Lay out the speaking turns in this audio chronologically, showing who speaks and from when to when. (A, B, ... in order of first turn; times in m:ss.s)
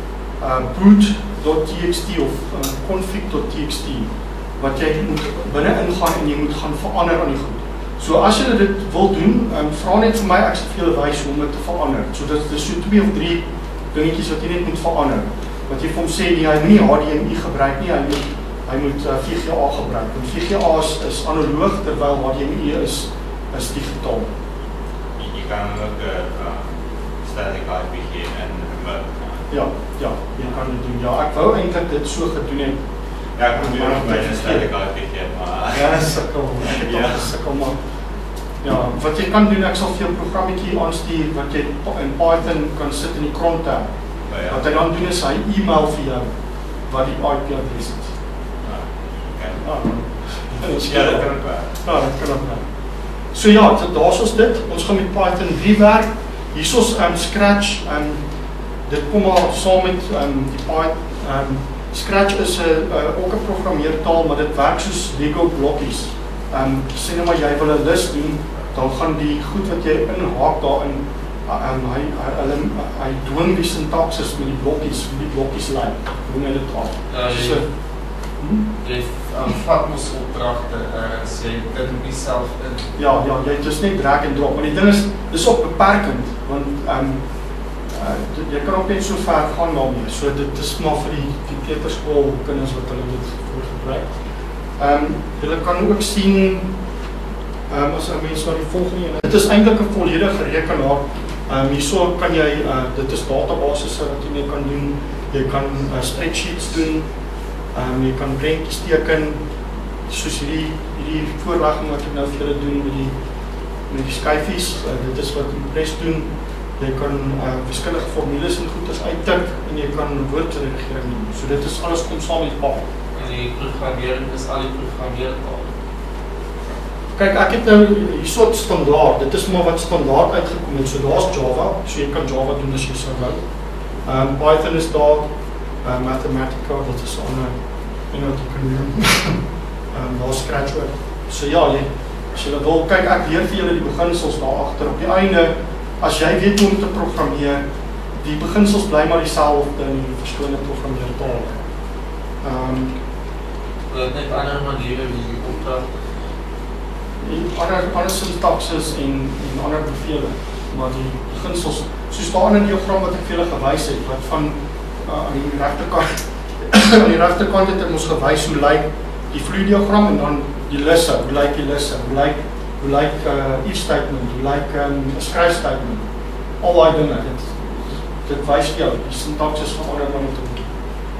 0:00.4-0:24.3 A
0:25.2-0:26.7 B
0:27.2-0:29.5 B
0:29.5-0:32.8 A
0:33.4-0:37.4 B
0:33.5-0:34.7 A
0:35.7-0:37.8 A
0:38.6-0:43.9 A
0:44.3-0:44.6 B
0:44.5-0:46.3 A
0:46.9-0:48.1 A
0:48.6-0:49.6 B
0:49.6-0:52.6 A
0:50.8-0:51.7 B
0:53.3-0:58.2 A
0:58.9-1:17.6 A
1:17.1-1:17.6 C
1:18.4-1:18.6 A
1:18.8-1:22.9 C
1:23.0-1:27.2 A
1:27.9-1:34.1 A
1:34.8-1:36.7 A
1:37.7-1:47.0 A
1:47.7-1:49.4 A
1:50.1-1:53.1 A
1:53.9-2:02.8 A
2:03.1-2:05.7 C
2:07.2-2:13.4 A
2:14.0-2:15.2 A
2:15.8-2:17.6 A
2:18.1-2:19.4 A
2:19.9-2:27.6 A
2:28.2-2:31.5 A
2:32.4-2:32.9 A
2:33.9-2:35.8 C
2:37.2-2:56.0 A
2:56.6-3:00.7 A